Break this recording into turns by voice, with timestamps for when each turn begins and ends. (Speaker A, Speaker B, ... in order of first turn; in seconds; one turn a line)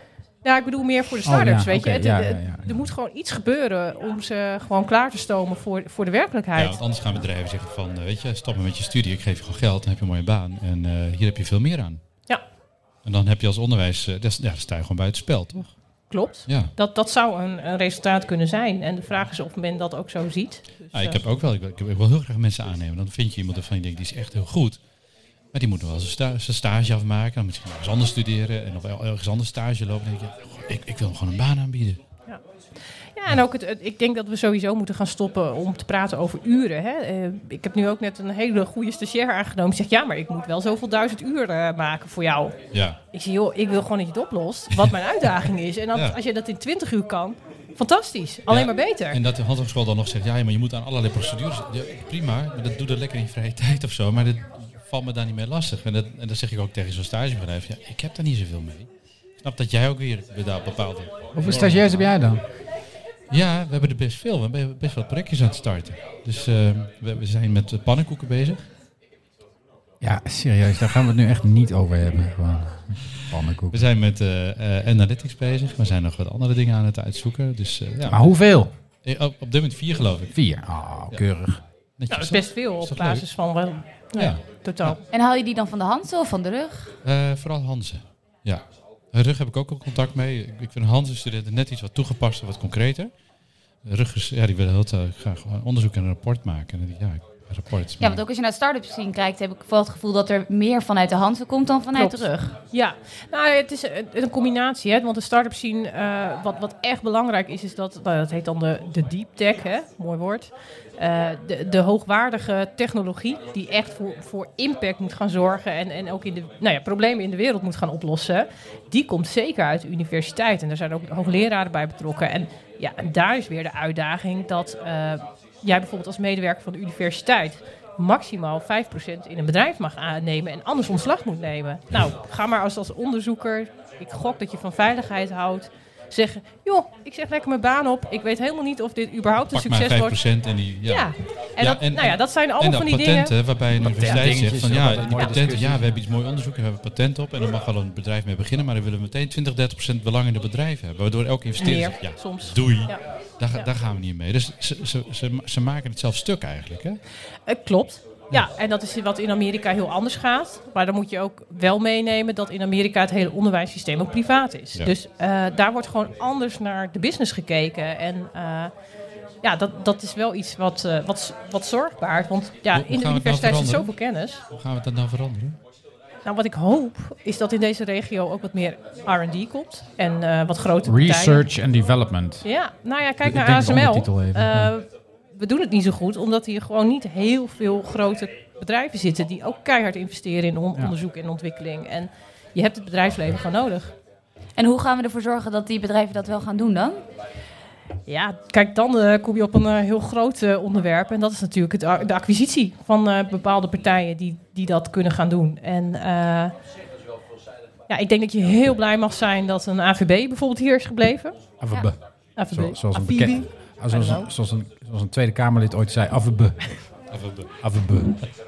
Speaker A: 0.4-6.8
Speaker B: 1.2-2.7
Speaker C: 6.5-12.0
Speaker C: 13.0-15.7
Speaker A: 16.1-21.2
Speaker C: 20.9-24.8
Speaker C: 25.5-32.0
Speaker A: 33.1-42.6
Speaker C: 42.7-43.0
Speaker A: 43.1-49.2
Speaker C: 48.5-58.9
Speaker C: 59.4-62.1
Speaker B: 61.3-62.4
Speaker C: 63.3-68.7
Speaker B: 70.0-73.8
Speaker C: 73.7-78.3
Speaker B: 78.0-78.7
Speaker C: 79.0-80.3
Speaker B: 80.3-81.6
Speaker C: 82.0-83.2
Speaker A: 82.1-85.0
Speaker C: 84.2-85.0
Speaker D: 85.1-86.9
Speaker C: 87.0-93.1
Speaker C: 93.8-98.2
Speaker D: 98.0-102.5
Speaker A: 101.9-140.2
Speaker C: 139.5-157.0
Speaker A: 140.9-143.3
Speaker B: 143.8-146.0
Speaker A: 151.6-153.0
Speaker A: 157.5-168.7
Speaker A: 169.4-174.4
Speaker C: 172.7-173.9
Speaker C: 174.5-175.6
Speaker A: 176.2-181.4
Speaker B: 180.8-182.4
Speaker A: 182.4-193.9
Speaker B: 183.2-184.7
Speaker D: 194.6-197.0
Speaker A: 198.1-206.5
Speaker A: 207.9-211.4
Speaker B: 211.6-212.0
Speaker A: 212.4-214.3
Speaker B: 212.5-216.6
Speaker C: 217.1-217.5
Speaker B: 217.6-218.2